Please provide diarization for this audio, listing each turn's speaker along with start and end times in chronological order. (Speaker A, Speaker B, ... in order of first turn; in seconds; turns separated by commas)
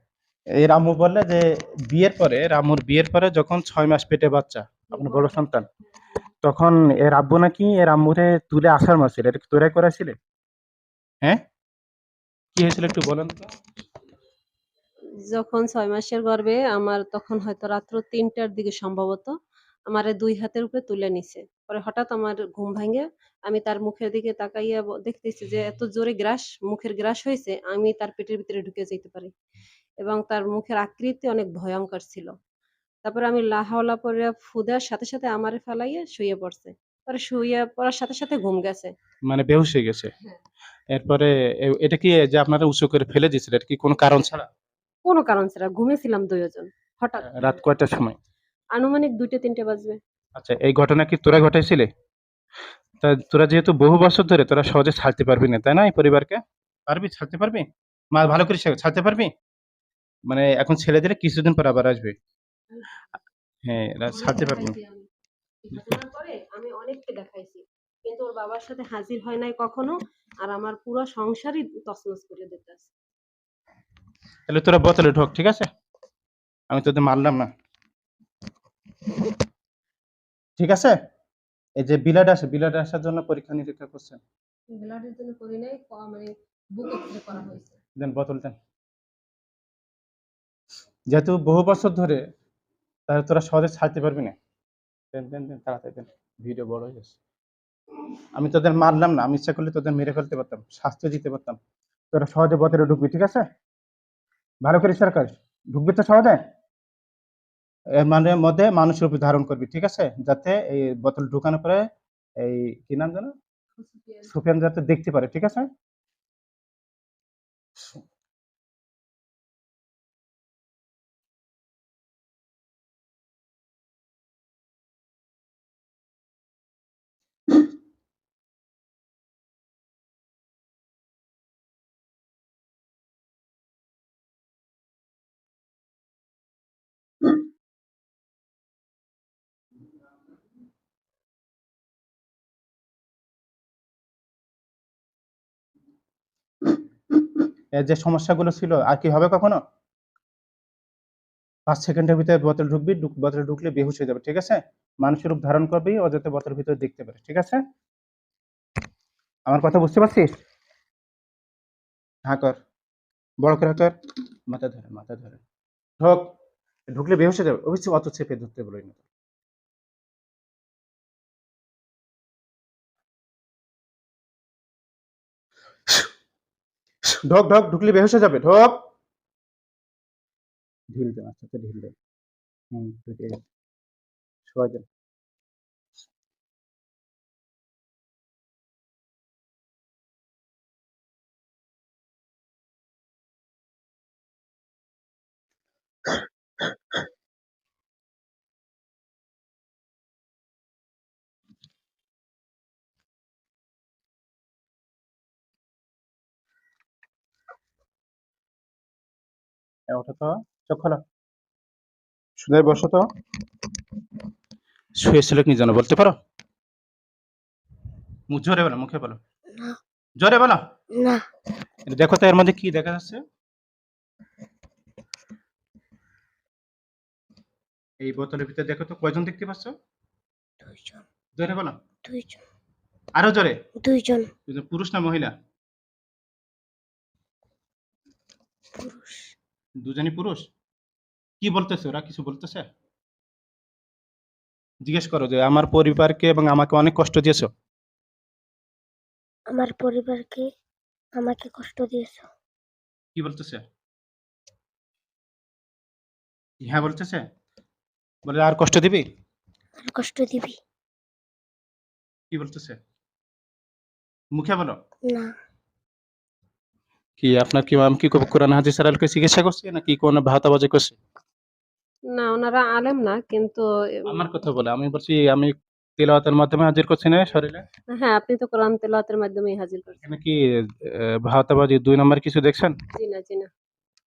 Speaker A: 0.6-5.7, Speaker B: 4.9-6.2, Speaker A: 6.4-10.2, Speaker A: 12.5-13.5, Speaker B: 15.2-19.4, Speaker B: 19.9-29.3, Speaker B: 30.0-32.4, Speaker B: 33.0-38.9, Speaker A: 39.3-40.1, Speaker A: 40.9-44.5, Speaker B: 45.0-47.7, Speaker A: 47.2-48.2, Speaker B: 48.8-50.0, Speaker A: 50.4-51.9, Speaker A: 53.0-59.3, Speaker A: 60.3-62.1, Speaker B: 62.7-63.0, Speaker A: 63.6-64.8, Speaker B: 64.1-65.1, Speaker B: 65.6-72.9, Speaker A: 74.5-75.7, Speaker A: 76.7-77.5, Speaker A: 80.6-81.0, Speaker A: 81.8-84.2, Speaker B: 84.7-87.8, Speaker A: 88.0-88.6, Speaker A: 91.1-92.2, Speaker A: 93.1-94.3, Speaker A: 95.1-97.2, Speaker A: 98.3-101.6, Speaker A: 102.1-103.5, Speaker A: 104.6-106.4, Speaker A: 108.0-111.9, Speaker A: 112.4-113.3, Speaker B: 113.8-114.3, Speaker A: 114.3-115.7, Speaker A: 147.7-149.6, Speaker A: 151.7-157.6, Speaker A: 159.5-160.4, Speaker A: 162.2-162.6, Speaker A: 163.4-164.0, Speaker A: 164.5-165.4, Speaker A: 166.0-166.3, Speaker A: 166.9-169.0, Speaker A: 177.1-178.8, Speaker A: 180.9-181.9, Speaker A: 182.7-183.4, Speaker A: 184.5-184.8, Speaker A: 209.9-211.0, Speaker A: 212.4-213.1, Speaker A: 215.0-216.2, Speaker A: 218.3-219.2, Speaker A: 220.2-220.6, Speaker C: 220.9-221.2, Speaker A: 221.9-223.2, Speaker A: 228.0-229.8, Speaker C: 230.6-231.0, Speaker A: 231.4-231.8, Speaker C: 232.1-232.4, Speaker A: 233.2-233.6, Speaker C: 233.8-234.3, Speaker A: 234.5-235.3, Speaker C: 238.8-239.3, Speaker A: 239.8-240.5, Speaker A: 241.4-242.7, Speaker A: 244.8-247.5, Speaker C: 249.5-250.5, Speaker C: 251.2-252.3, Speaker A: 253.2-253.6, Speaker A: 256.6-257.2, Speaker A: 258.2-259.1, Speaker C: 259.8-260.6, Speaker A: 262.3-262.8, Speaker A: 264.4-264.8, Speaker C: 265.1-265.3, Speaker A: 267.2-271.0, Speaker B: 272.1-274.1, Speaker A: 274.1-277.6, Speaker B: 277.9-280.0, Speaker A: 280.0-282.8, Speaker B: 282.9-283.5